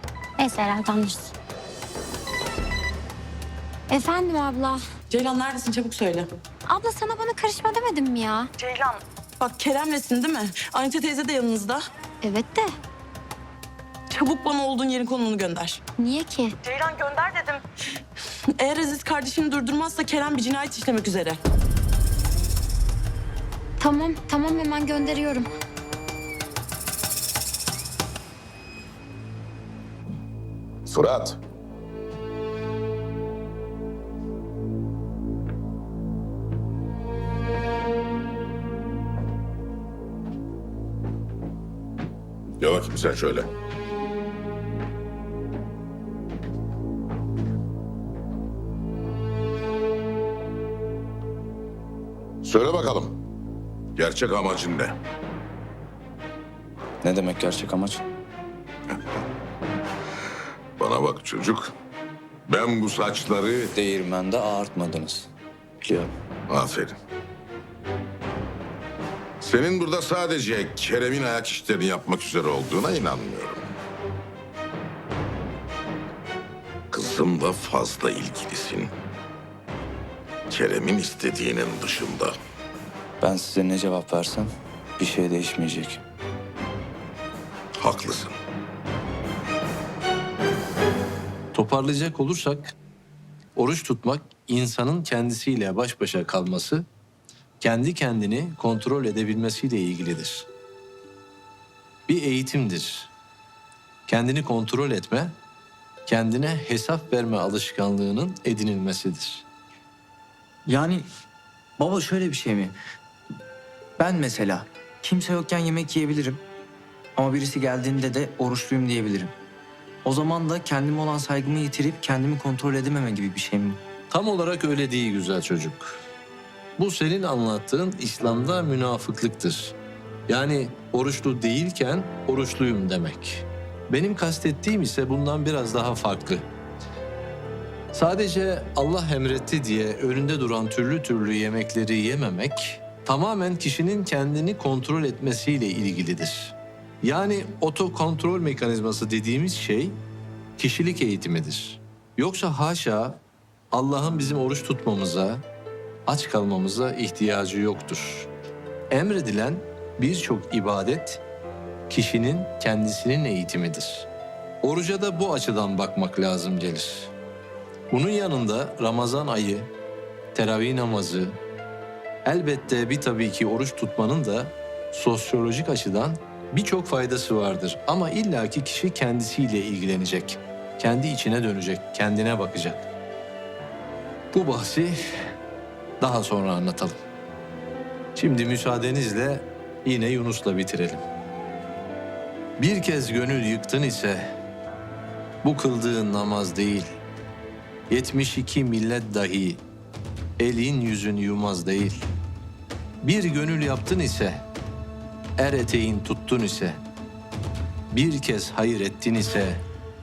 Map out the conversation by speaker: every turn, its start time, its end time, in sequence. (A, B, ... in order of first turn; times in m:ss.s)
0:00.4-0:01.3 A
0:03.9-0:04.8 A
0:05.1-0:06.3 B
0:06.7-0:08.5 A
0:08.6-0:11.8 B
0:12.2-0:12.7 A
0:14.1-0:15.8 B
0:16.0-0:16.6 A
0:16.7-0:17.6 B
0:18.6-0:21.4 B
0:23.8-0:25.5 A
0:30.9-0:31.4 C
0:42.6-0:43.5 C
0:52.4-0:53.2 C
0:54.0-0:54.9 C
0:57.0-0:58.0 D
1:00.8-1:01.7 C
1:02.5-1:03.7 C
1:03.7-1:05.3 D
1:05.8-1:06.1 D
1:06.5-1:07.0 C
1:09.4-1:13.6 C
1:16.9-1:18.9 C
1:20.5-1:22.3 C
1:23.2-1:26.0 D
1:27.8-1:28.4 C
1:31.5-1:32.8 E
1:33.6-1:36.9 E
1:37.6-1:40.5 E
1:42.1-1:43.1 E
1:44.1-1:45.4 E
1:46.1-1:49.4 E
1:50.7-1:51.1 F
1:51.8-1:52.8 F
1:54.0-1:56.4 F
1:57.2-1:59.3 F
2:00.0-2:03.8 F
2:04.1-2:06.0 E
2:06.8-2:09.8 E
2:10.3-2:16.5 E
2:17.9-2:30.0 E
2:30.6-2:33.2 E
2:33.7-2:35.4 E
2:36.1-2:38.3 E
2:38.9-2:41.2 E
2:41.9-2:44.1 E
2:44.6-2:47.1 E
2:47.9-2:49.7 E
2:50.3-2:51.4 E
2:52.2-3:02.9 E
3:04.3-3:05.3 E
3:06.0-3:07.0 E
3:08.2-3:11.0 E
3:12.6-3:14.3 E
3:15.4-3:16.9 E
3:17.9-3:19.6 E
3:20.4-3:22.1 E
3:23.0-3:24.5 E
3:25.4-3:26.8 E
3:27.9-3:29.7 E